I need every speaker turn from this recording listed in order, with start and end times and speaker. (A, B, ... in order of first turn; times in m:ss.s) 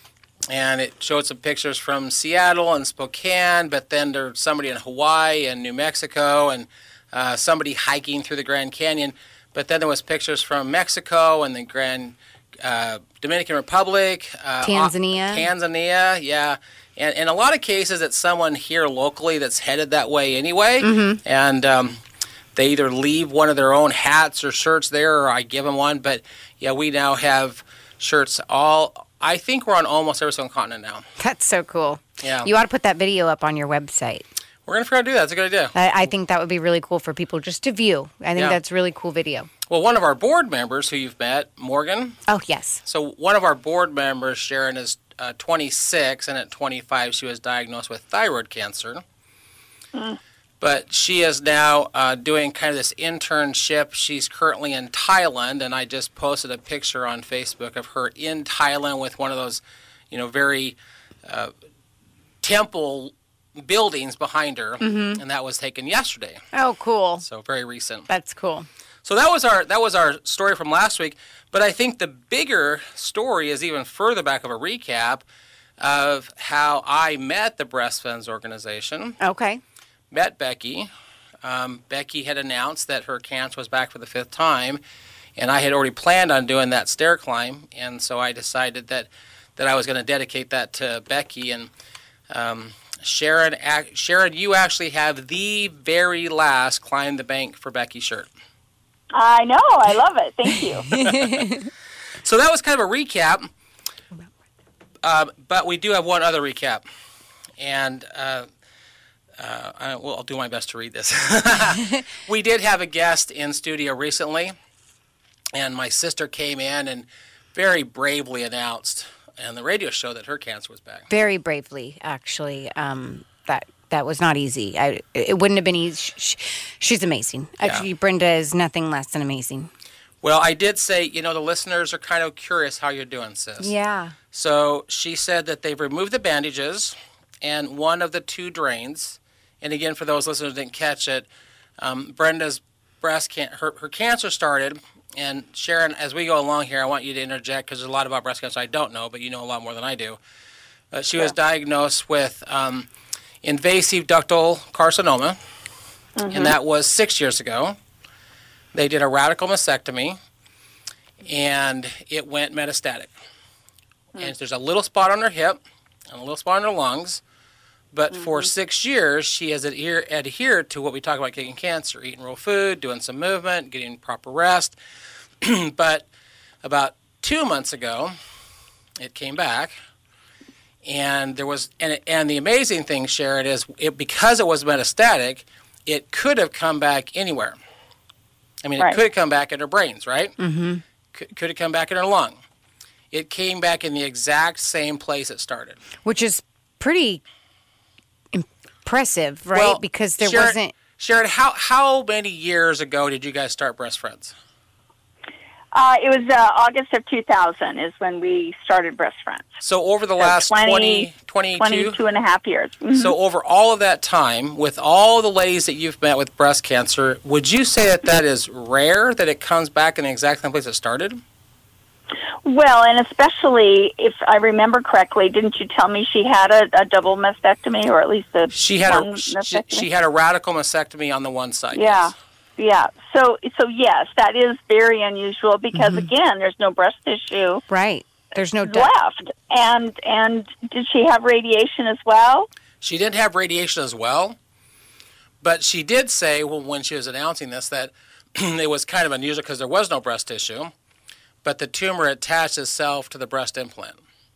0:00.5-0:22.0 A
0:14.6-0:15.5 B
0:20.8-0:21.2 B
0:22.5-0:31.0 A
0:31.2-0:34.2 B
0:32.2-0:32.5 A
0:34.7-0:35.7 A
0:35.7-0:39.5 B
0:39.7-0:42.2 A
0:42.3-0:42.8 B
0:42.8-0:49.0 A
0:50.6-1:01.5 A
1:02.4-1:06.4 A
1:04.8-1:05.2 B
1:06.5-1:07.2 B
1:07.2-1:08.1 A
1:08.1-1:08.7 B
1:09.0-1:15.2 A
1:15.8-1:19.2 A
1:19.2-1:19.6 B
1:20.1-1:20.9 A
1:21.4-1:24.8 A
1:25.4-1:31.7 A
1:32.3-1:38.3 A
1:39.1-1:40.9 C
1:40.9-1:41.7 B
1:40.9-1:41.5 A
1:42.2-1:43.5 A
1:45.0-1:46.8 A
1:47.6-1:48.5 A
1:49.4-1:54.5 A
1:55.5-2:01.1 A
2:01.1-2:09.7 B
2:10.2-2:13.7 A
2:13.6-2:14.2 B
2:14.3-2:21.3 A
2:21.8-2:30.2 A
2:30.9-2:32.9 A
2:33.4-2:35.4 A
2:36.2-2:36.5 C
2:36.3-2:37.8 A
2:38.7-2:40.2 A
2:41.2-2:43.1 A
2:44.2-2:47.2 A
2:47.9-2:54.8 A
2:48.1-2:48.5 C
2:55.4-2:56.1 A
2:56.6-2:58.1 A
2:59.0-2:59.7 A
3:00.8-3:07.6 A
3:08.6-3:10.3 A
3:10.4-3:10.8 B
3:11.1-3:12.4 A
3:13.1-3:15.8 A
3:16.0-3:17.2 B
3:18.3-3:20.7 B
3:19.5-3:24.3 A
3:25.7-3:29.5 C
3:29.6-3:32.0 A
3:30.2-3:31.1 C
3:31.6-3:33.1 C
3:32.9-3:41.2 A
3:42.4-3:49.8 C
3:48.5-3:52.1 A
3:51.7-3:57.6 C
3:55.7-3:56.1 B
3:57.7-3:58.9 B
3:58.6-4:02.5 C
4:02.8-4:04.4 A
4:05.4-4:10.7 A
4:11.4-4:14.0 A